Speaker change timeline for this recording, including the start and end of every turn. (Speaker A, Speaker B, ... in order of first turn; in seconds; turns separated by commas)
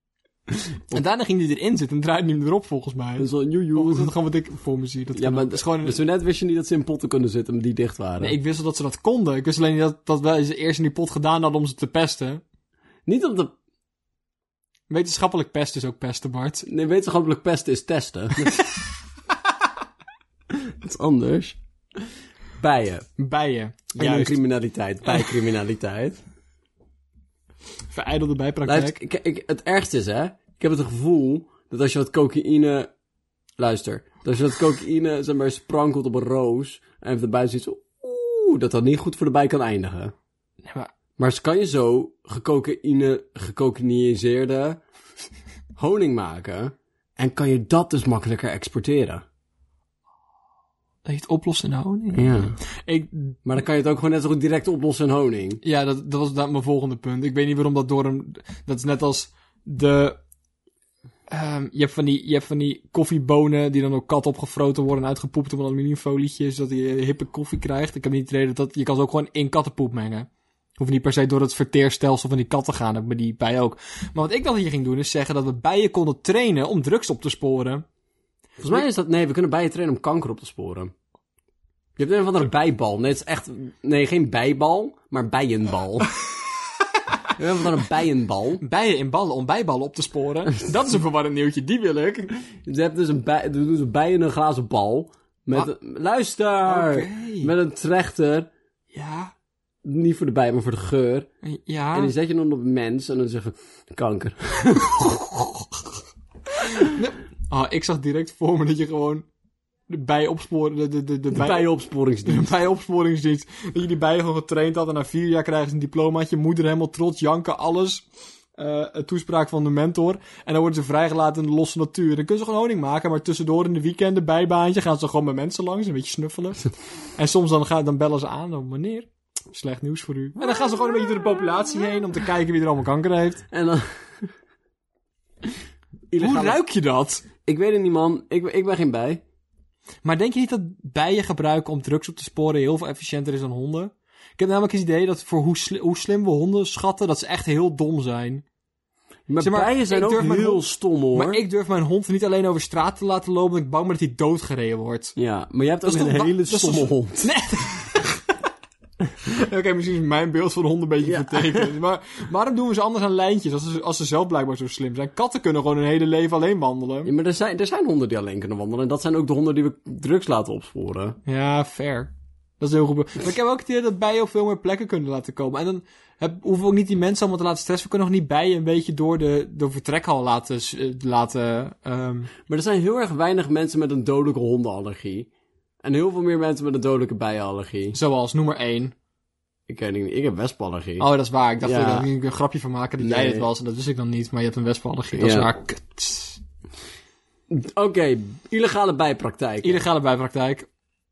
Speaker A: 0.9-6.0, Speaker B: 3.2-4.1, Speaker B: 5.2-8.4, Speaker A: 8.2-12.4, Speaker B: 13.1-13.5, Speaker A: 14.9-16.6, Speaker B: 16.7-18.6, Speaker B: 20.5-22.0, Speaker B: 22.6-23.1, Speaker A: 23.2-24.4, Speaker B: 24.0-26.2, Speaker A: 27.9-29.0, Speaker B: 28.7-32.9, Speaker B: 33.6-40.1, Speaker B: 41.2-44.8, Speaker B: 45.8-49.2, Speaker A: 51.0-53.4, Speaker B: 52.1-52.6, Speaker B: 53.5-55.6, Speaker A: 55.6-60.2, Speaker A: 61.3-77.8, Speaker B: 78.6-80.9, Speaker B: 82.0-86.1, Speaker B: 87.3-88.6, Speaker A: 88.6-92.3, Speaker B: 92.5-98.5, Speaker A: 96.7-97.5, Speaker A: 98.9-99.3, Speaker B: 99.8-101.3, Speaker A: 101.5-102.1, Speaker B: 101.9-105.1, Speaker A: 104.9-105.5, Speaker B: 106.6-106.9, Speaker A: 106.8-109.3, Speaker A: 109.9-111.7, Speaker B: 111.3-112.6, Speaker A: 112.2-118.0, Speaker A: 118.6-126.6, Speaker A: 127.2-133.4, Speaker B: 133.5-134.3, Speaker B: 136.1-136.6, Speaker A: 136.2-137.2, Speaker B: 137.4-139.2, Speaker A: 140.0-148.4, Speaker B: 149.3-151.4, Speaker A: 149.4-155.1, Speaker B: 155.2-157.3, Speaker A: 155.8-158.2, Speaker A: 159.2-167.1, Speaker B: 161.0-161.7, Speaker B: 167.1-171.2, Speaker A: 171.3-182.3, Speaker B: 182.5-185.3, Speaker B: 185.8-188.0, Speaker A: 187.9-188.9, Speaker B: 189.7-191.1, Speaker A: 191.0-196.4, Speaker B: 191.6-192.1, Speaker B: 193.0-193.5, Speaker B: 195.2-195.5, Speaker B: 197.5-199.8, Speaker A: 199.6-200.7